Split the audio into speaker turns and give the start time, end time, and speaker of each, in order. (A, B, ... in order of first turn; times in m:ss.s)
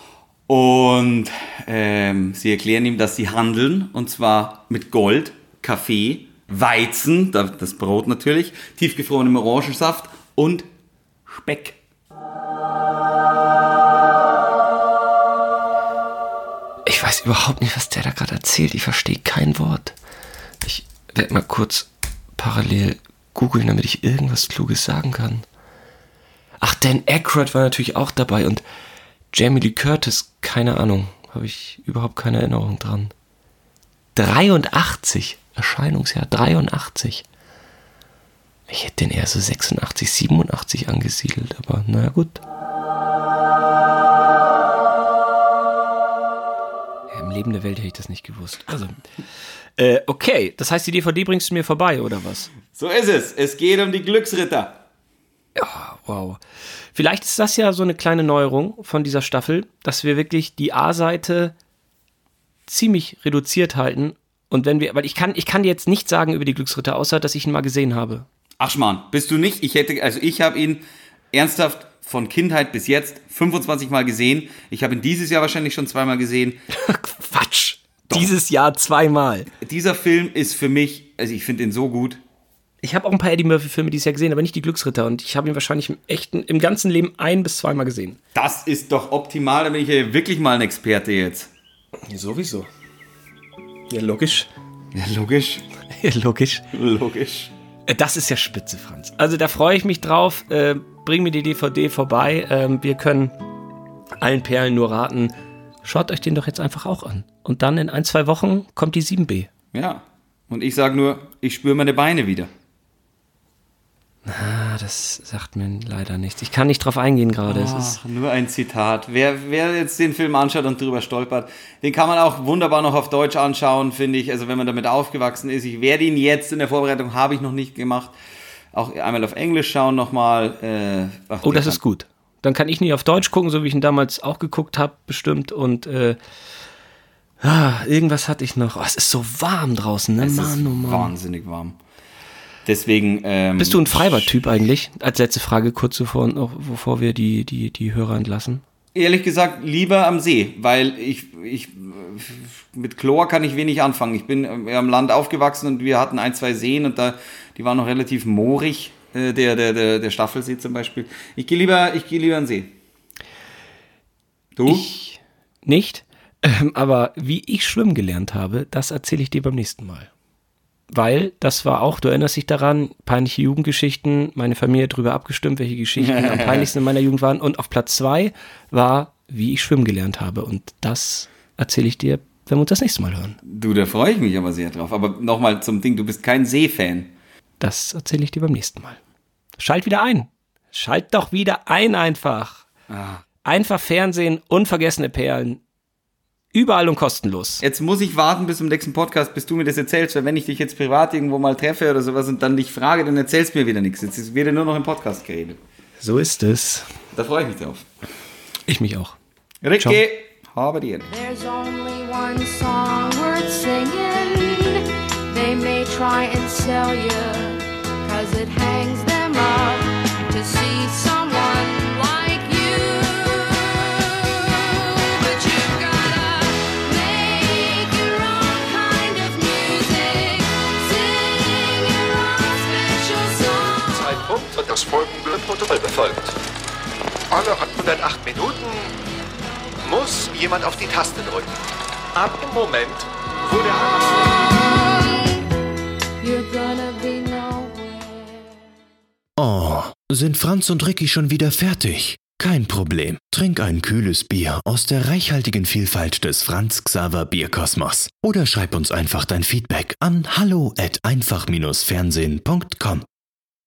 0:00.5-0:10.7 A
0:11.3-0:11.8 A
0:16.9-0:20.0 B
0:20.6-0:25.4 B
0:26.6-0:28.6 B
0:29.3-0:33.1 B
0:34.2-0:37.2 B
0:38.7-0:42.4 B
0:47.1-0:49.0 B
0:49.8-0:52.5 B
0:52.7-0:54.8 A
0:55.6-0:56.4 B
0:57.0-1:01.5 B
1:02.7-1:08.3 B
1:08.6-1:16.6 A
1:16.7-1:19.5 B
1:18.1-1:18.3 A
1:19.6-1:22.2 A
1:22.8-1:28.2 B
1:28.4-1:31.5 A
1:32.1-1:32.7 B
1:33.9-1:34.5 B
1:34.9-1:35.7 A
1:36.0-1:36.6 B
1:36.7-1:37.5 A
1:37.9-1:43.3 B
1:44.2-1:45.3 B
1:45.8-1:49.5 B
1:49.7-1:52.5 A
1:54.2-1:58.0 B
1:57.5-2:08.1 A
2:08.7-2:11.8 A
2:11.4-2:16.2 B
2:17.4-2:21.1 B
2:20.2-2:21.8 A
2:22.7-2:24.3 A
2:23.6-2:28.6 B
2:29.0-2:42.7 A
2:44.6-2:44.9 A
2:44.7-2:50.1 B
2:50.9-3:03.4 B
2:56.0-2:56.7 A
3:03.5-3:07.1 A
3:07.6-3:09.0 B
3:09.6-3:12.7 B
3:12.9-3:13.2 A
3:13.4-3:15.6 B
3:16.5-3:17.6 B
3:17.6-3:25.6 A
3:26.0-3:26.9 B
3:27.2-3:27.9 A
3:28.7-3:29.2 B
3:29.6-3:31.1 A
3:31.1-3:53.9 C
3:53.9-3:56.4 D
3:57.3-3:58.9 D
3:59.8-4:01.5 D
4:02.1-4:04.6 D
4:06.2-4:08.4 C
4:09.4-4:23.1 E